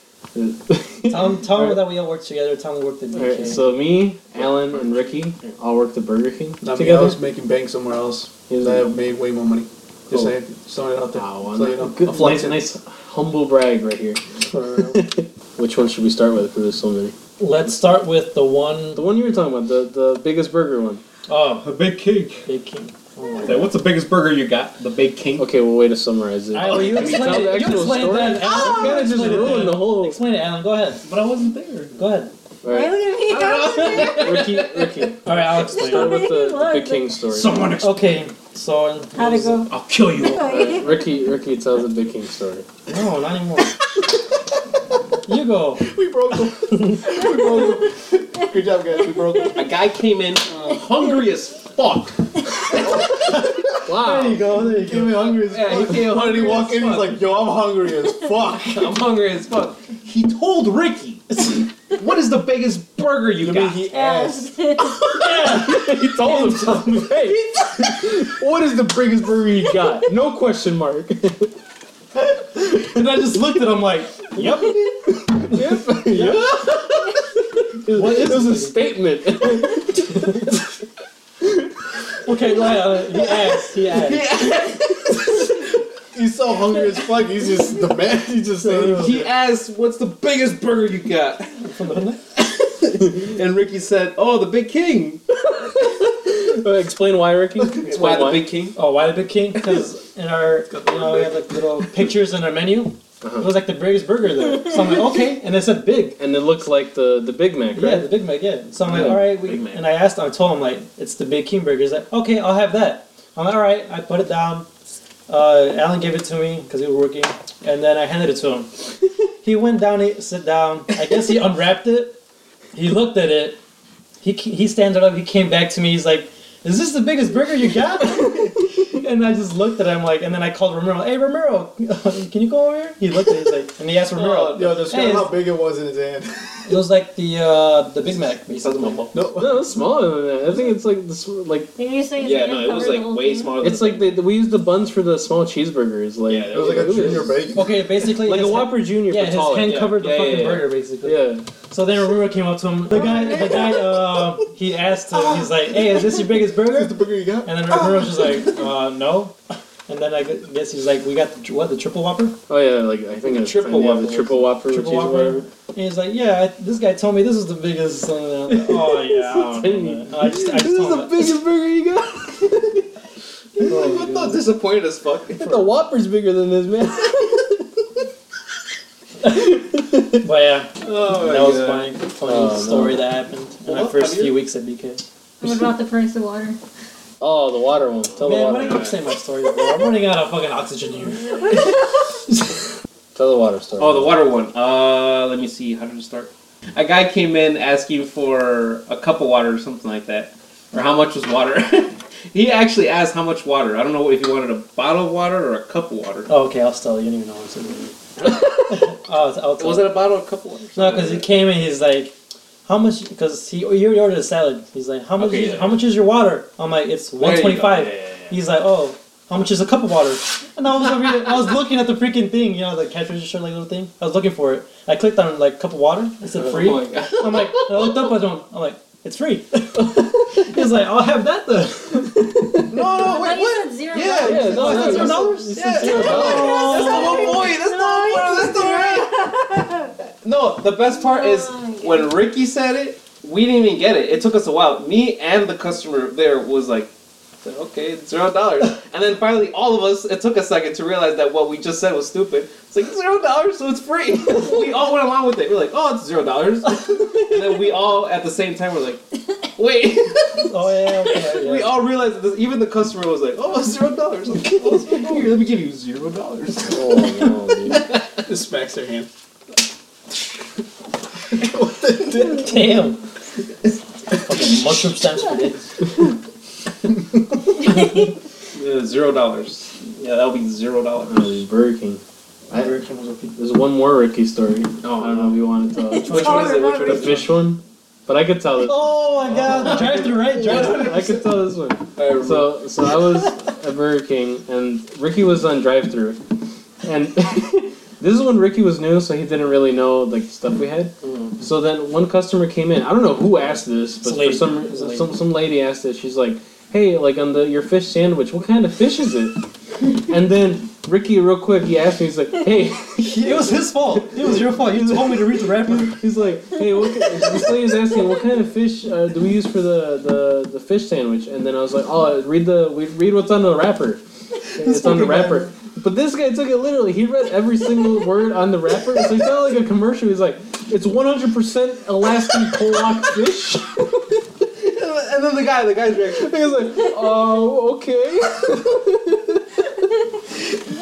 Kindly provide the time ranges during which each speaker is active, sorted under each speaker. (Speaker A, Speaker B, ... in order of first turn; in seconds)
Speaker A: 0.3-1.8, 3.1-7.2, 8.5-8.9, 11.1-17.1, 18.9-21.0, 25.4-30.2, 32.6-32.9, 33.9-37.6, 40.4-42.6, 53.9-54.5, 65.2-71.5, 75.1-76.5, 77.8-80.5, 95.5-98.5, 103.2-103.5, 106.2-108.1, 139.3-141.7, 143.6-147.4, 148.2-149.8, 151.0-151.4, 162.5-165.4, 168.4-172.5, 175.4-177.7, 182.2-183.1, 187.2-188.8, 193.1-194.1, 234.2-236.8, 266.7-267.9, 281.1-282.0, 283.4-288.9, 290.3-296.2, 296.8-309.4, 310.1-324.0, 324.6-333.8, 336.1-339.4
Speaker B: 1.1-3.7, 14.5-15.0, 17.4-19.0, 22.4-23.7, 26.5-31.0, 31.9-32.3, 35.2-36.2, 37.7-39.7, 42.9-43.8, 45.3-45.9, 46.7-47.2, 53.2-55.4, 65.1-67.2, 72.8-76.6, 77.9-78.8, 80.1-80.5, 82.2-84.3, 88.6-89.2, 91.6-92.2, 98.8-106.2, 107.7-114.7, 115.3-118.7, 119.4-122.2, 122.7-123.6, 124.2-135.4, 136.7-139.1, 147.5-159.3, 159.9-162.3, 164.6-171.3, 173.6-174.4, 179.2-179.5, 180.1-185.0, 188.2-192.6, 206.3-207.9, 208.6-210.0, 210.8-212.1, 212.7-232.8, 234.3-237.4, 260.4-261.8, 272.2-273.0, 274.2-275.7, 282.5-283.3, 286.0-286.8, 288.6-291.0, 304.0-305.1, 313.0-316.0, 324.7-325.5
Speaker C: 4.3-5.5, 21.3-22.4, 23.4-25.5, 26.5-27.7, 28.7-29.4, 31.0-32.0, 33.3-35.0, 37.3-38.0, 39.7-40.7, 49.5-52.2, 55.4-57.3, 58.6-63.8, 76.5-76.8, 83.1-85.5, 88.9-91.6, 92.3-95.2, 97.8-98.8, 108.8-109.8, 134.1-134.8, 138.0-139.2, 142.2-144.2, 146.3-147.3, 149.6-150.7, 163.2-164.5, 173.6-175.7, 180.8-181.9, 183.7-184.4, 188.4-189.0, 193.8-206.3, 208.2-208.9, 209.6-211.2, 215.2-215.8, 217.2-218.4, 226.3-228.1, 232.7-239.3, 240.2-246.9, 247.4-267.0, 267.7-268.0, 278.5-281.3, 284.8-285.4, 286.0-287.4, 289.4-291.3, 291.9-292.9, 301.0-301.4, 334.5-336.6
Speaker D: 6.6-12.7, 45.8-49.8, 50.5-50.8, 52.7-53.9, 54.6-59.0, 63.4-64.5, 86.1-89.3, 100.7-101.6, 134.5-136.8, 139.1-139.7, 146.5-148.0, 155.2-158.6, 268.2-269.1, 271.4-272.6, 324.7-325.1
Speaker E: 32.7-34.4, 35.6-37.1, 39.1-41.1, 49.1-49.6, 63.9-65.0, 141.8-143.5, 152.9-153.9, 185.4-186.6, 191.3-191.8, 233.0-235.2, 235.8-239.9, 240.8-242.1, 285.8-287.2